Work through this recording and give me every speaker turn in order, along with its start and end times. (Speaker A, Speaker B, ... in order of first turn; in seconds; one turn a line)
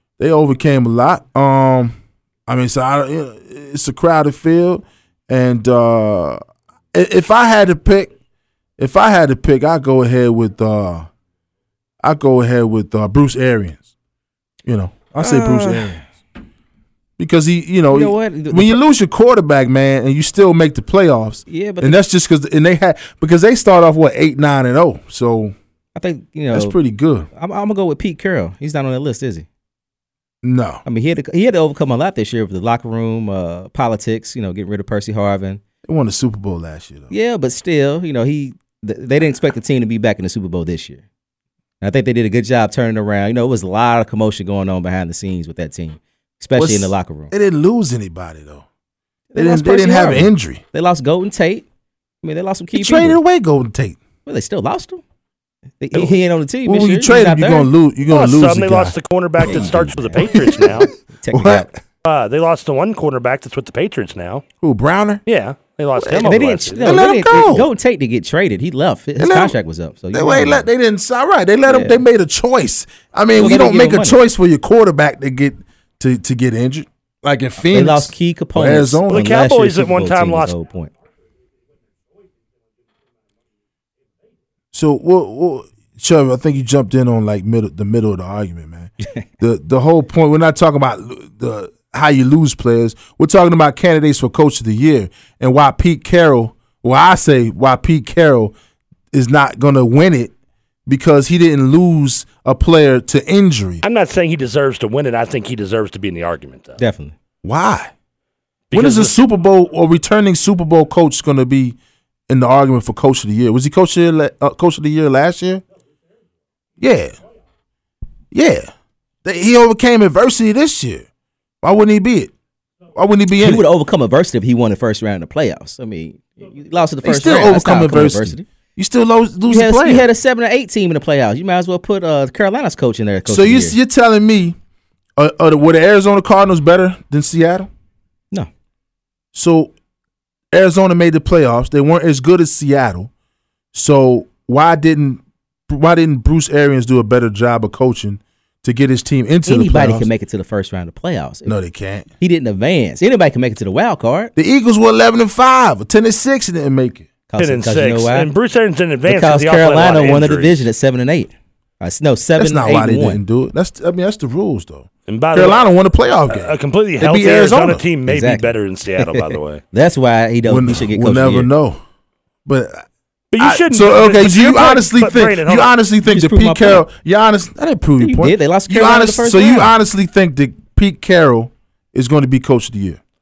Speaker A: 0.2-6.4
Speaker A: 6.9-8.1
Speaker A: 8.8-11.1
Speaker A: 12.0-13.9
Speaker A: 14.7-16.0
Speaker B: 15.2-16.0
Speaker A: 17.2-25.6
Speaker B: 17.9-18.8
Speaker B: 21.5-22.0
Speaker B: 25.9-26.8
Speaker A: 26.5-27.3
Speaker B: 27.3-29.5
Speaker A: 30.4-30.8
Speaker B: 30.9-35.6
Speaker A: 35.9-37.1
Speaker B: 37.1-41.0
Speaker B: 41.8-47.3
Speaker A: 46.6-48.6
Speaker B: 49.3-51.6
Speaker A: 49.4-50.6
Speaker B: 52.2-53.2
Speaker A: 52.7-54.0
Speaker B: 54.2-55.0
Speaker B: 55.8-57.7
Speaker A: 56.6-61.7
Speaker C: 58.1-60.9
Speaker B: 59.5-60.3
Speaker B: 61.2-61.7
Speaker C: 62.0-64.4
Speaker A: 64.6-65.2
Speaker C: 65.2-67.0
Speaker A: 66.0-67.7
Speaker B: 66.1-70.7
Speaker A: 69.2-69.6
Speaker A: 70.1-79.3
Speaker B: 71.7-72.0
Speaker B: 73.4-74.2
Speaker B: 77.6-80.9
Speaker C: 79.1-80.5
Speaker A: 84.7-98.5
Speaker A: 99.1-100.3
Speaker A: 100.9-103.8
Speaker C: 103.8-106.8
Speaker B: 106.8-107.2
Speaker A: 107.4-107.9
Speaker C: 108.7-109.2
Speaker A: 108.7-111.8
Speaker A: 112.3-115.6
Speaker A: 116.8-117.2
Speaker A: 118.3-118.7
Speaker A: 119.2-121.1
Speaker A: 121.6-122.3
Speaker A: 123.0-123.7
Speaker B: 123.3-128.5
Speaker A: 127.0-130.1
Speaker B: 129.5-133.8
Speaker A: 133.2-134.6
Speaker A: 135.2-137.7
Speaker A: 139.3-139.7
Speaker A: 140.5-143.1
Speaker A: 143.7-150.1
Speaker B: 149.5-151.6
Speaker A: 151.4-152.1
Speaker B: 152.2-154.3
Speaker A: 154.4-157.1
Speaker B: 157.3-158.3
Speaker C: 157.4-160.6
Speaker B: 159.1-163.2
Speaker A: 162.4-167.8
Speaker C: 165.1-165.7
Speaker C: 166.3-169.6
Speaker B: 168.1-171.5
Speaker A: 170.5-171.8
Speaker A: 172.5-172.9
Speaker C: 173.3-175.7
Speaker A: 173.4-183.0
Speaker B: 176.1-176.8
Speaker B: 178.0-179.7